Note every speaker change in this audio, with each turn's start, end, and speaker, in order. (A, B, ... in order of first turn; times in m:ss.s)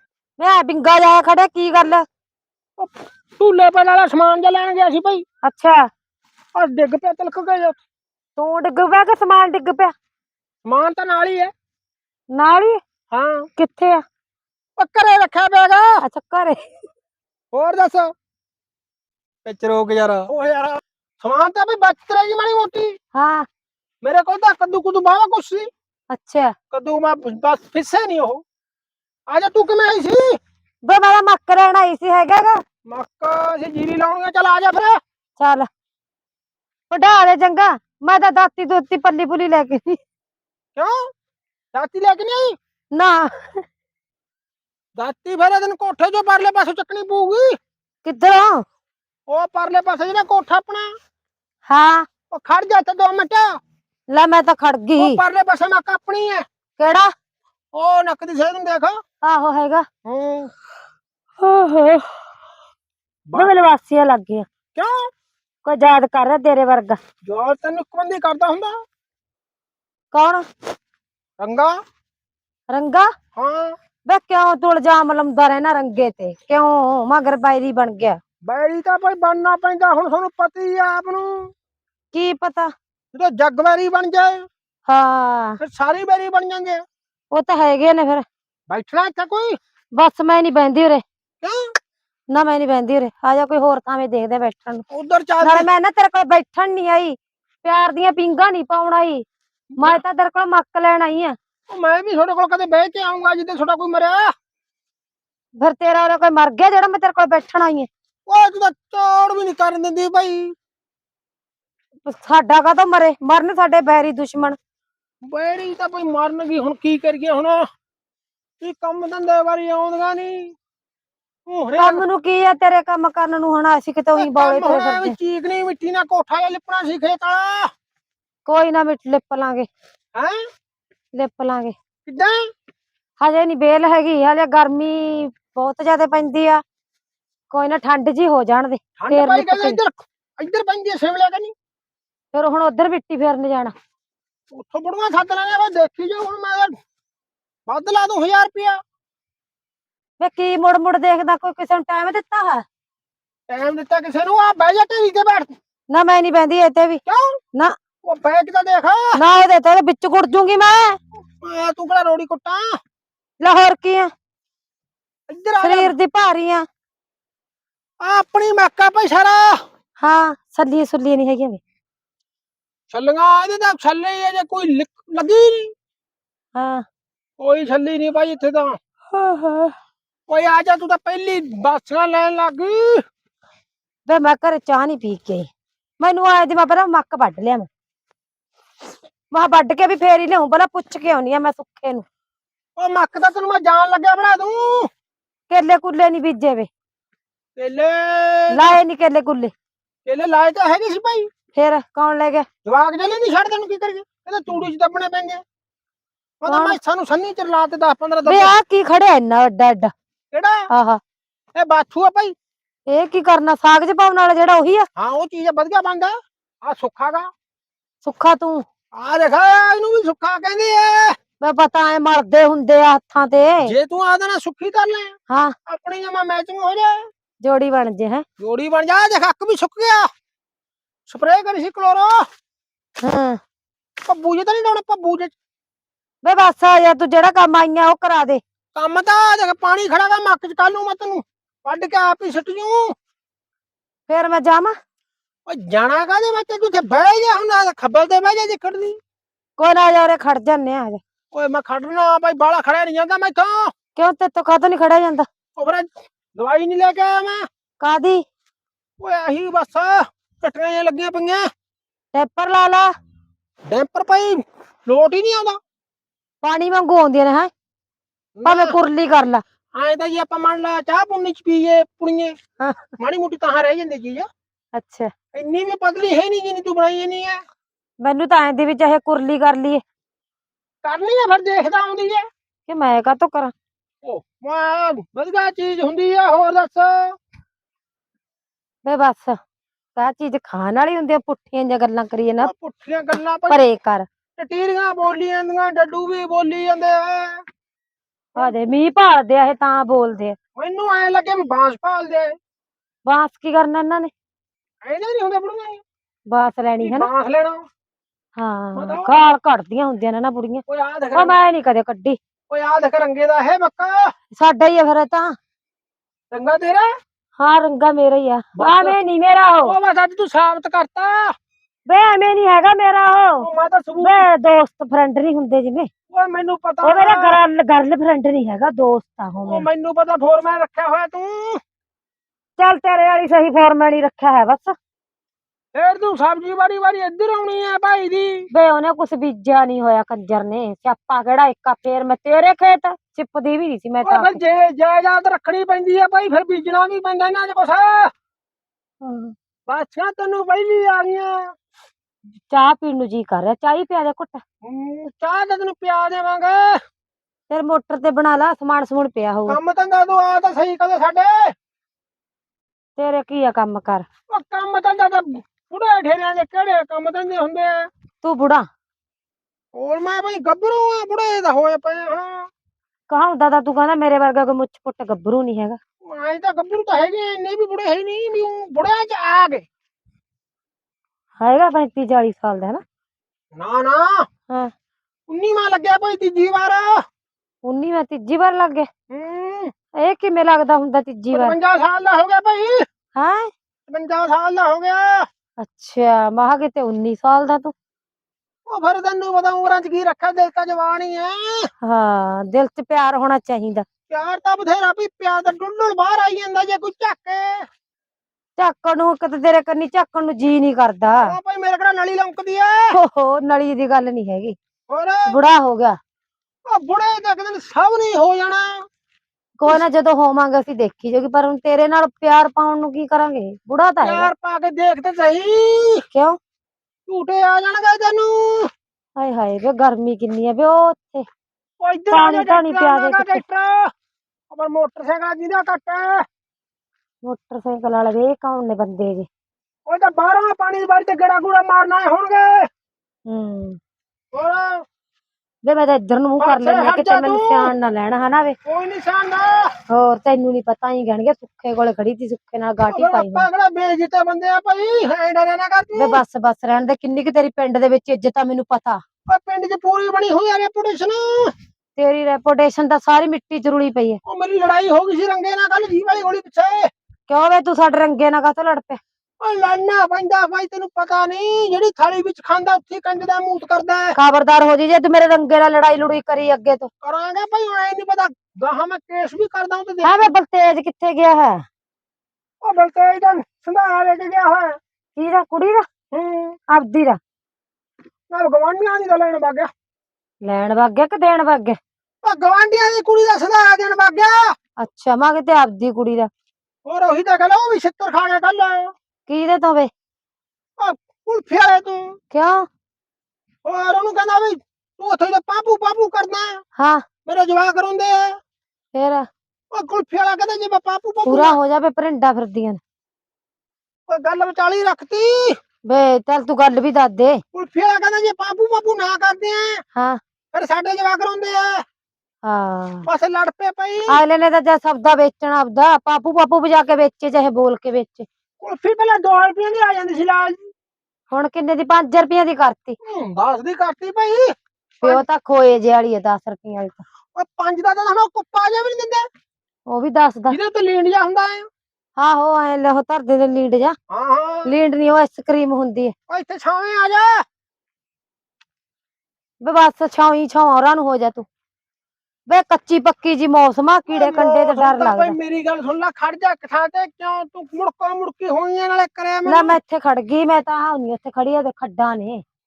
0:00.4-0:02.1 A
0:02.8-0:05.2 B
0:05.4-0:05.8 A
0:06.6-0:07.8 B
0:08.4-0:09.9 A
0:10.6-0:11.5 B
0:12.3-0:12.8 A
0:13.1-0:13.5 B
0:13.6-0:14.0 A
0:14.8-0:16.0 B
0:16.0-0:16.7 A
0:17.5-0:18.1 B
0:19.4-0:23.0 B
0:23.2-0:23.5 A
0:24.0-0:25.7 B
0:26.1-0:26.5 A
0:26.7-0:28.4 B
0:29.3-0:30.4 B
0:30.9-0:32.6 A
0:32.9-0:35.0 B
0:35.4-0:35.7 A
0:36.9-0:40.0 A
0:40.8-0:41.1 B
0:41.7-0:42.6 B
0:42.9-0:43.6 A
0:45.0-0:47.6 B
0:48.0-0:48.6 A
0:49.3-0:50.9 B
0:51.7-0:52.1 A
0:52.3-0:53.6 B
0:54.1-0:55.2 A
0:55.0-0:56.4 B
0:56.8-0:57.1 A
0:57.7-0:59.0 B
0:59.2-0:59.9 A
1:00.1-1:00.5 B
1:01.4-1:02.1 A
1:03.4-1:04.5 A
1:05.6-1:07.0 A
1:07.2-1:08.8 B
1:10.1-1:10.4 A
1:11.4-1:11.8 B
1:12.7-1:13.1 A
1:13.4-1:13.8 B
1:14.1-1:18.2 A
1:18.4-1:21.5 B
1:22.1-1:22.7 A
1:23.1-1:24.5 B
1:24.9-1:25.6 A
1:25.6-1:26.8 B
1:27.3-1:28.2 A
1:28.7-1:29.6 B
1:30.0-1:31.0 A
1:32.3-1:34.8 A
1:34.9-1:35.7 B
1:35.4-1:39.2 A
1:39.8-1:40.0 B
1:39.8-1:41.4 A
1:41.7-1:44.3 B
1:45.6-1:47.9 A
1:48.3-1:50.5 B
1:52.1-1:54.6 A
1:55.3-1:57.7 B
1:58.6-2:00.6 B
2:01.5-2:02.0 B
2:01.8-2:05.2 A
2:04.2-2:07.7 B
2:08.5-2:09.7 A
2:10.2-2:10.4 B
2:11.2-2:11.8 A
2:12.1-2:12.4 B
2:13.2-2:16.6 A
2:17.5-2:19.8 A
2:19.0-2:21.5 B
2:22.3-2:23.7 A
2:24.5-2:26.7 B
2:27.7-2:28.8 B
2:30.2-2:32.6 A
2:33.5-2:35.5 B
2:35.9-2:37.0 A
2:37.1-2:37.4 B
2:38.0-2:39.2 B
2:39.2-2:41.0 A
2:41.4-2:42.8 B
2:43.4-2:44.1 A
2:45.3-2:45.9 B
2:45.6-2:46.6 A
2:48.0-2:49.6 B
2:50.0-2:51.6 A
2:52.9-2:55.7 B
2:56.6-2:56.8 A
2:57.4-2:58.8 B
2:59.1-2:59.8 A
3:00.3-3:03.0 B
3:04.1-3:07.7 A
3:09.3-3:12.0 A
3:12.8-3:14.9 B
3:15.5-3:16.7 A
3:17.6-3:18.8 B
3:18.5-3:19.5 A
3:20.1-3:21.3 B
3:21.6-3:22.5 A
3:22.6-3:25.4 B
3:26.4-3:28.5 B
3:26.5-3:26.8 A
3:28.3-3:29.9 A
3:30.3-3:30.6 B
3:30.7-3:31.0 A
3:31.6-3:32.4 B
3:32.9-3:34.9 A
3:35.0-3:37.3 B
3:38.0-3:38.6 A
3:38.9-3:41.2 B
3:41.4-3:43.7 A
3:43.6-3:45.2 B
3:45.3-3:45.6 A
3:45.7-3:47.1 B
3:47.4-3:48.2 A
3:48.4-3:50.1 B
3:51.1-3:52.2 B
3:53.0-3:53.4 A
3:54.0-3:55.3 B
3:56.2-3:58.4 A
3:58.8-4:02.9 B
4:04.1-4:04.8 A
4:05.5-4:09.0 B
4:09.6-4:11.0 A
4:11.3-4:13.7 B
4:14.0-4:15.3 A
4:15.6-4:17.4 B
4:17.8-4:18.2 A
4:19.0-4:21.4 B
4:22.1-4:22.9 A
4:23.7-4:25.6 B
4:26.4-4:27.5 A
4:28.4-4:28.8 B
4:28.4-4:29.4 A
4:29.8-4:32.4 B
4:32.6-4:32.9 A
4:33.0-4:34.3 B
4:34.8-4:35.1 A
4:35.4-4:37.4 B
4:38.0-4:39.8 A
4:40.8-4:42.3 B
4:42.7-4:43.5 A
4:44.0-4:47.2 B
4:48.8-4:49.4 A
4:50.0-4:52.5 A
4:52.4-4:53.6 B
4:53.5-4:54.1 A
4:54.4-4:57.4 B
4:58.4-5:00.4 A
5:00.6-5:02.4 B
5:03.1-5:04.1 A
5:04.8-5:05.8 B
5:06.3-5:07.1 A
5:06.8-5:07.6 B
5:08.4-5:10.6 A
5:08.8-5:09.1 B
5:10.7-5:11.4 B
5:11.2-5:12.2 A
5:12.5-5:14.1 B
5:14.4-5:15.4 A
5:16.3-5:16.9 B
5:17.4-5:19.8 A
5:18.6-5:19.0 B
5:19.6-5:21.3 B
5:21.9-5:23.5 A
5:23.4-5:24.3 B
5:24.0-5:25.9 A
5:26.1-5:27.4 B
5:26.8-5:29.7 A
5:29.5-5:31.6 B
5:32.6-5:34.8 A
5:35.7-5:38.5 B
5:38.5-5:44.4 A
5:44.0-5:48.1 B
5:49.0-5:49.3 A
5:49.7-5:51.5 B
5:52.5-5:54.4 A
5:54.6-5:56.8 B
5:57.5-5:59.6 A
5:59.5-6:01.5 B
6:03.0-6:04.1 A
6:04.3-6:07.9 B
6:08.2-6:08.7 A
6:09.8-6:12.5 B
6:13.1-6:15.8 A
6:16.0-6:19.7 B
6:21.4-6:22.8 A
6:23.6-6:24.3 B
6:25.3-6:27.0 B
6:27.6-6:28.9 A
6:29.1-6:29.7 B
6:30.0-6:31.6 A
6:31.3-6:32.8 B
6:33.2-6:33.5 A
6:33.9-6:35.3 B
6:35.6-6:37.7 A
6:38.7-6:41.7 B
6:41.8-6:43.9 A
6:44.1-6:47.7 B
6:48.6-6:51.3 A
6:51.2-6:53.0 B
6:52.9-6:54.6 A
6:54.9-6:55.4 B
6:55.3-6:56.0 A
6:56.7-6:58.8 B
6:59.6-7:04.3 A
7:04.0-7:06.0 B
7:06.1-7:06.4 A
7:07.1-7:08.7 B
7:09.2-7:11.2 A
7:11.8-7:13.9 B
7:12.1-7:13.4 A
7:14.5-7:16.2 B
7:17.2-7:19.3 A
7:19.9-7:22.7 B
7:23.3-7:23.8 A
7:24.3-7:24.8 B
7:25.6-7:28.6 A
7:26.4-7:27.7 B
7:28.6-7:29.7 B
7:29.9-7:33.5 A
7:32.9-7:36.2 B
7:36.0-7:39.0 A
7:39.3-7:41.5 B
7:42.0-7:44.2 A
7:44.3-7:46.9 B
7:47.3-7:49.0 A
7:49.4-7:54.2 B
7:54.2-7:56.9 A
7:57.0-8:00.2 B
8:00.0-8:01.6 A
8:02.6-8:04.8 B
8:05.2-8:05.8 A
8:06.1-8:06.6 B
8:06.7-8:07.2 A
8:08.3-8:09.7 B
8:10.4-8:11.8 A
8:12.2-8:14.6 B
8:14.8-8:16.3 A
8:16.9-8:18.9 B
8:19.3-8:19.9 A
8:20.8-8:22.2 B
8:22.3-8:22.7 A
8:23.6-8:26.6 B
8:26.8-8:27.0 A
8:27.3-8:28.4 B
8:28.9-8:29.3 A
8:29.7-8:31.6 B
8:31.3-8:32.8 A
8:34.1-8:35.6 B
8:35.9-8:37.4 A
8:37.5-8:39.8 B
8:40.5-8:41.8 B
8:42.4-8:43.1 A
8:43.1-8:44.2 B
8:44.1-8:48.3 A
8:48.6-8:50.7 B
8:51.3-8:53.0 A
8:53.0-8:55.2 B
8:55.0-8:57.0 A
8:57.4-8:59.3 B
8:59.9-9:00.6 A
9:00.5-9:01.7 B
9:02.2-9:04.0 A
9:04.1-9:04.7 B
9:04.7-9:06.1 A
9:06.3-9:07.4 B
9:09.6-9:11.5 A
9:12.5-9:15.4 A
9:14.1-9:19.8 B
9:19.5-9:22.4 A